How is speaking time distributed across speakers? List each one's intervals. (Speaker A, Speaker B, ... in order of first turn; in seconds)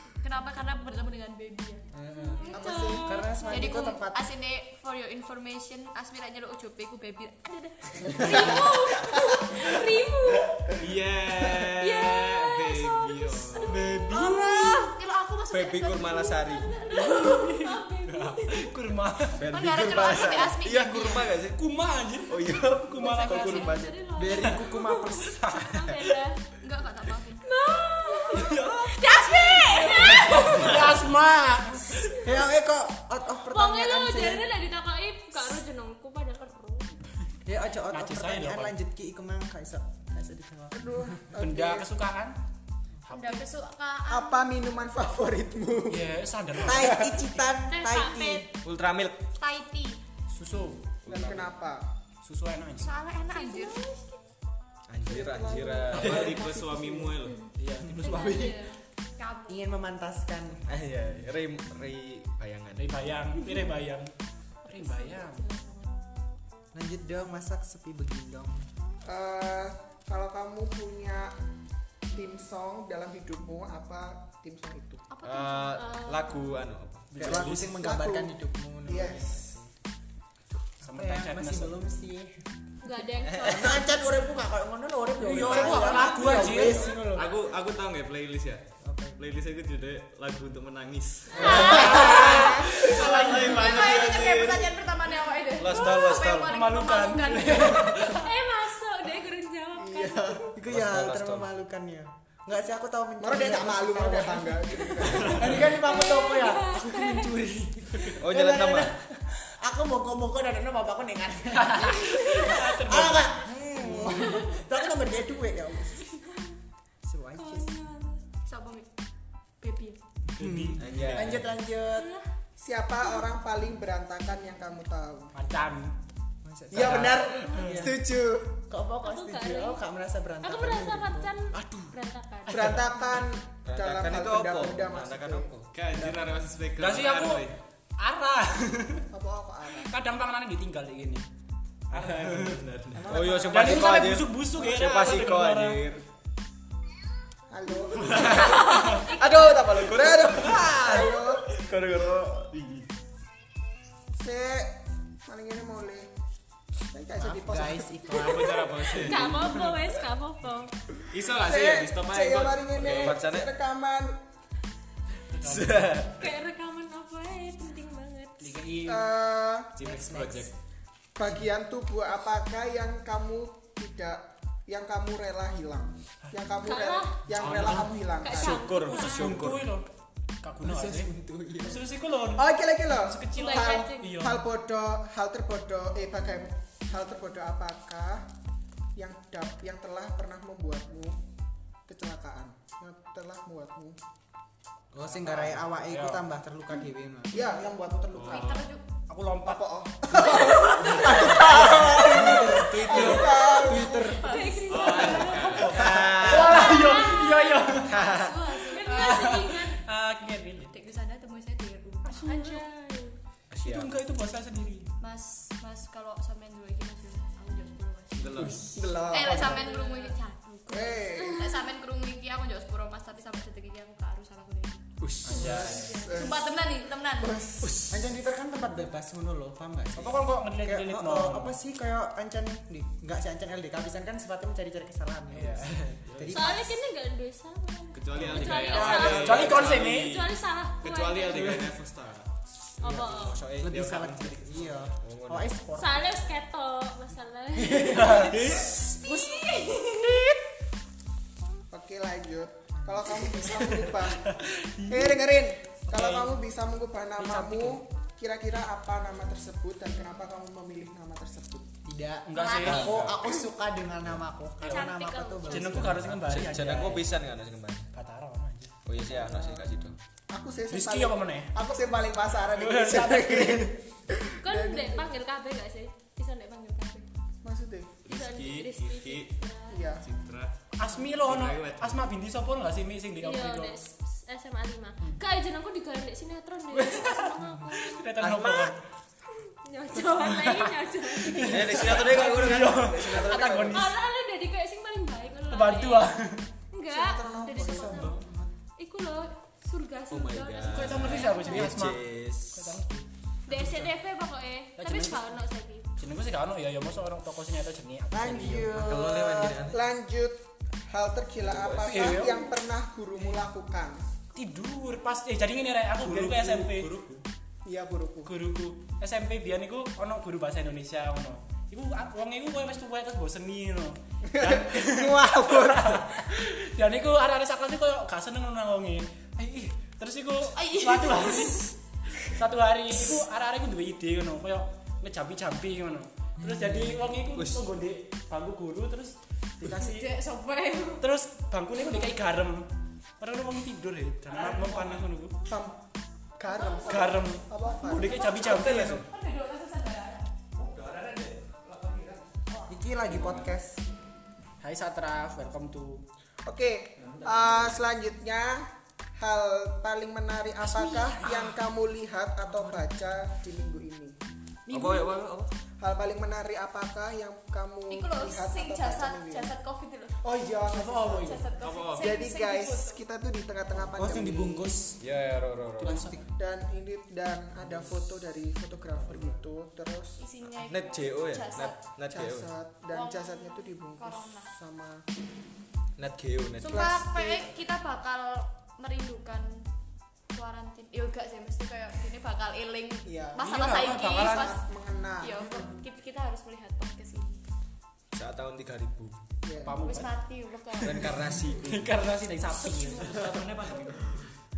Speaker A: 0.2-1.8, 3.5-8.7, 14.1-17.2, 19.5-21.4, 22.9-23.9, 26.6-27.4, 28.0-30.8, 43.1-44.5, 49.4-50.0, 52.8-53.9, 58.0-59.6, 63.4-63.7, 64.7-65.9, 75.1-75.7, 91.4-98.1, 118.4-118.9, 119.6-120.0, 198.2-198.8, 200.3-201.5, 203.4-205.4, 206.6-209.4, 210.6-212.6, 215.0-227.4, 249.0-250.2, 262.3-263.2, 330.5-331.7, 339.6-341.0, 346.4-350.4, 367.9-370.2, 371.2-373.0, 380.2-381.9, 382.9-384.5, 386.6-389.7, 390.3-394.6, 395.2-397.4, 399.8-401.3, 402.5-402.9
Speaker B: 1.9-4.2, 24.1-25.5, 32.1-34.5, 37.4-40.9, 46.6-48.5, 56.5-57.0, 59.5-60.7, 66.7-68.6, 77.2-79.7, 80.9-82.4, 83.4-87.1, 88.8-89.2, 100.5-116.0, 117.0-117.7, 120.3-122.1, 126.4-128.0, 128.7-131.6, 142.9-143.8, 157.2-158.9, 169.8-170.5, 180.6-181.8, 194.9-198.1, 201.0-204.3, 227.9-236.8, 242.8-246.1, 261.8-267.0, 297.5-298.5, 308.1-309.6, 352.7-353.8, 373.9-375.0, 375.8-376.2
Speaker C: 2.2-3.8, 8.1-10.7, 11.8-14.9, 16.5-18.7, 23.2-26.4, 27.4-30.8, 33.5-36.9, 47.7-48.4, 53.3-54.2, 58.0-58.6, 75.5-76.6, 82.8-84.0, 91.4-92.1, 98.0-100.5, 105.7-107.3, 117.4-118.2, 121.9-122.2, 129.0-129.8, 130.4-132.8, 148.3-149.6, 158.2-160.7, 166.2-168.5, 176.6-177.7, 178.2-179.4, 183.3-184.1, 204.1-205.8, 206.5-207.5, 208.7-209.8, 212.2-213.2, 219.6-220.1, 236.3-241.6, 242.8-243.4, 245.8-249.5, 264.6-265.9, 274.4-277.1, 278.1-279.9, 283.2-288.0, 289.6-291.9, 293.7-296.1, 296.7-298.2, 298.8-301.8, 303.4-305.9
Speaker D: 2.5-3.1, 8.2-8.8, 40.7-41.9, 44.1-46.1, 46.7-47.2, 51.1-51.9, 55.1-57.1, 69.0-71.3, 72.1-75.0, 77.7-78.3, 78.9-79.6, 99.8-100.6, 103.2-105.7, 122.6-125.3, 126.7-128.6, 132.5-136.3, 139.1-139.9, 143.1-143.4, 147.5-151.5, 154.2-154.7, 155.2-156.1, 156.9-158.1, 161.3-164.2, 168.8-169.8, 171.2-178.6, 182.3-188.2, 188.9-191.2, 191.9-194.0, 197.3-198.4, 199.4-204.1, 218.4-219.7, 220.7-221.5, 225.4-226.5, 227.2-227.9, 251.7-261.7, 269.1-269.7, 270.3-275.0, 277.4-278.0, 279.7-280.0, 296.9-298.1, 309.7-314.0, 317.6-318.3, 324.3-326.2, 345.5-345.8, 346.4-348.3, 356.4-358.7, 359.2-364.2, 365.8-369.5, 370.2-371.4, 371.9-374.7, 376.4-380.2, 382.1-385.0, 386.7-387.5, 393.1-395.7, 399.4-399.8
Speaker E: 10.8-14.3, 55.9-57.4, 87.1-88.6, 89.2-94.7, 135.7-137.6, 141.9-143.0, 152.5-152.8, 158.1-159.4, 161.1-163.2, 169.8-170.5, 198.1-198.7, 202.8-203.3, 204.7-205.8, 218.1-218.6, 225.4-225.8, 237.9-242.3, 243.6-244.9, 278.1-279.3, 280.0-282.0, 316.0-317.2, 344.3-345.0, 350.5-352.4, 353.0-353.6, 357.0-357.8, 371.6-372.1, 403.0-404.3
Speaker F: 15.5-16.8, 19.4-21.6, 22.3-24.0, 48.6-49.2, 51.0-51.5, 54.9-56.4, 60.7-63.0, 75.2-77.2, 95.6-96.5, 100.7-101.5, 108.2-108.9, 120.8-121.5, 133.7-135.7, 143.0-146.0, 148.3-148.6, 149.2-152.5, 162.8-163.5, 165.4-166.3, 177.4-177.8, 178.3-179.6, 205.7-206.7, 207.9-208.3, 213.5-214.0, 225.0-226.0, 243.1-243.7, 245.0-245.5, 262.7-263.2, 266.1-267.9, 268.8-269.9, 288.2-288.7, 291.4-293.9, 300.1-302.8, 308.8-309.8, 311.4-312.3, 337.3-337.7, 348.5-348.9, 364.7-365.5, 375.0-376.1, 380.5-382.5, 386.0-386.9, 398.1-399.1, 400.8-402.0
Speaker G: 16.9-19.4, 21.5-23.6, 25.4-25.9, 28.4-28.9, 30.0-32.1, 37.9-38.7, 41.4-42.4, 43.1-43.4, 45.9-47.0, 50.3-50.8, 52.2-53.0, 55.9-56.2, 57.6-58.5, 62.8-64.1, 64.7-65.5, 77.1-77.8, 80.8-81.8, 85.2-87.3, 91.4-93.7, 96.5-98.3, 111.5-114.5, 120.3-121.2, 125.3-125.9, 132.5-132.9, 136.8-139.1, 139.9-141.2, 141.9-142.6, 143.5-145.8, 165.3-166.0, 168.4-169.1, 177.4-177.8, 178.8-179.9, 180.4-182.5, 183.0-184.4, 195.1-196.3, 199.1-199.6, 205.4-207.9, 208.8-210.7, 212.0-212.6, 213.6-214.9, 218.4-218.7, 225.2-225.8, 229.9-231.6, 235.3-235.9, 238.8-240.1, 247.8-248.7, 254.3-255.2, 255.9-256.3, 257.2-257.8, 262.3-262.9, 264.6-264.9, 265.5-267.0, 267.9-268.7, 270.7-271.5, 272.5-273.8, 280.8-283.8, 286.7-288.8, 290.1-290.7, 291.2-293.9, 295.5-296.4, 300.6-303.0, 303.6-303.8, 304.8-305.3, 306.0-308.9, 311.8-312.5, 314.3-316.9, 318.2-331.7, 332.2-340.1, 341.0-342.7, 343.2-345.4, 346.9-349.1, 354.6-356.0, 360.6-361.6, 364.7-365.2, 370.7-371.4, 375.8-376.2, 393.4-394.5, 399.6-400.1, 401.4-403.4